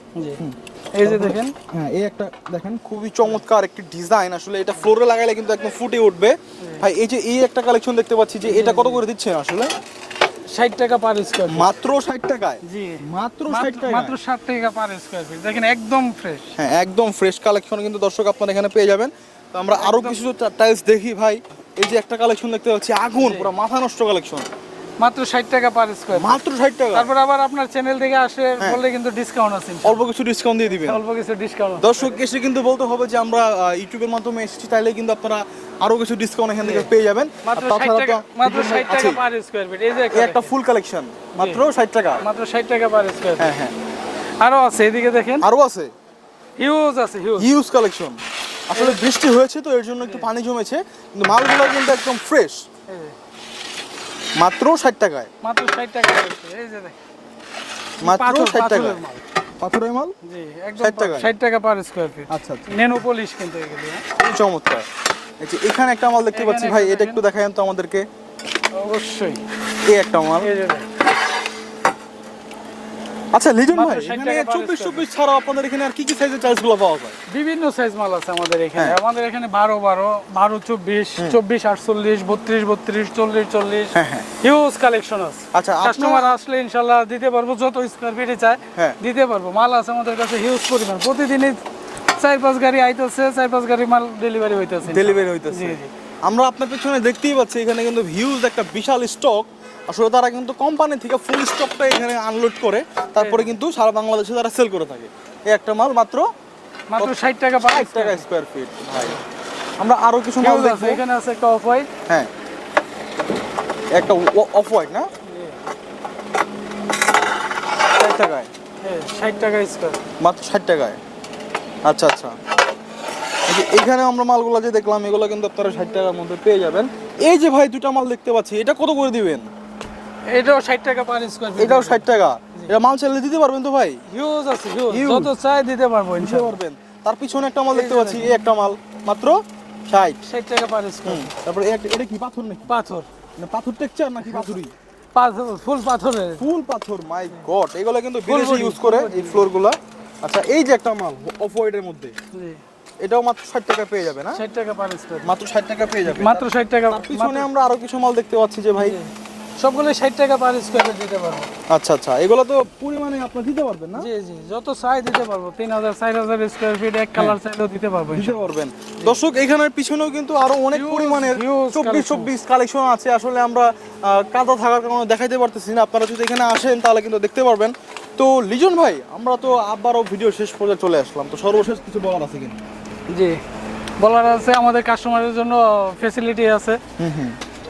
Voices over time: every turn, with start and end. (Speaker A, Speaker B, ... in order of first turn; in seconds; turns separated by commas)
Speaker A: 0.1-0.4, Speaker B: 0.4-9.7, Speaker A: 0.9-1.6, Speaker A: 6.6-6.8, Speaker A: 8.5-9.0, Speaker A: 10.5-11.7, Speaker B: 11.5-14.2, Speaker A: 12.6-16.6, Speaker B: 16.6-24.5, Speaker A: 19.7-20.2, Speaker A: 23.2-23.5, Speaker A: 25.0-26.4, Speaker B: 26.1-27.1, Speaker A: 26.9-30.1, Speaker B: 29.8-31.0, Speaker A: 30.7-32.2, Speaker B: 31.8-39.2, Speaker A: 36.6-36.9, Speaker A: 37.5-40.5, Speaker B: 40.1-42.2, Speaker A: 41.4-41.6, Speaker A: 42.2-43.6, Speaker B: 43.4-43.7, Speaker A: 44.4-45.5, Speaker B: 45.4-45.9, Speaker A: 46.6-47.5, Speaker B: 47.4-52.6, Speaker A: 48.8-49.0, Speaker A: 50.0-50.3, Speaker A: 52.9-53.1, Speaker B: 54.4-55.3, Speaker A: 55.4-57.0, Speaker B: 58.0-59.0, Speaker A: 58.0-59.2, Speaker B: 59.6-60.1, Speaker A: 60.2-64.0, Speaker B: 60.8-61.3, Speaker B: 62.3-62.7, Speaker B: 64.2-64.8, Speaker B: 65.4-68.1, Speaker A: 66.3-67.2, Speaker A: 68.7-69.4, Speaker B: 69.9-70.5, Speaker A: 70.4-70.9, Speaker B: 73.3-77.2, Speaker A: 73.7-75.1, Speaker A: 77.3-91.6, Speaker B: 84.0-84.3, Speaker B: 85.5-86.4, Speaker A: 92.2-95.9, Speaker B: 94.8-106.2, Speaker A: 103.2-103.5, Speaker A: 106.9-108.2, Speaker B: 107.0-109.2, Speaker B: 109.8-111.0, Speaker A: 110.4-111.9, Speaker B: 114.0-115.1, Speaker A: 115.3-115.5, Speaker B: 118.0-118.5, Speaker A: 118.8-120.0, Speaker B: 120.2-121.0, Speaker B: 121.8-122.3, Speaker B: 123.5-129.5, Speaker A: 130.3-132.7, Speaker B: 131.6-134.0, Speaker A: 134.1-136.6, Speaker B: 134.9-135.3, Speaker B: 136.2-140.2, Speaker A: 137.7-138.3, Speaker A: 140.2-141.3, Speaker B: 141.1-142.7, Speaker A: 142.7-143.1, Speaker B: 143.4-144.7, Speaker A: 144.2-144.6, Speaker A: 145.2-146.5, Speaker B: 146.4-152.1, Speaker A: 148.3-149.4, Speaker A: 152.3-152.6, Speaker B: 153.0-154.4, Speaker A: 154.3-155.3, Speaker B: 155.2-159.0, Speaker A: 156.1-157.5, Speaker A: 158.8-161.5, Speaker B: 161.7-164.1, Speaker A: 164.0-168.4, Speaker B: 168.1-182.6, Speaker A: 170.7-172.3, Speaker A: 183.1-183.4, Speaker A: 184.0-186.8, Speaker B: 187.0-187.4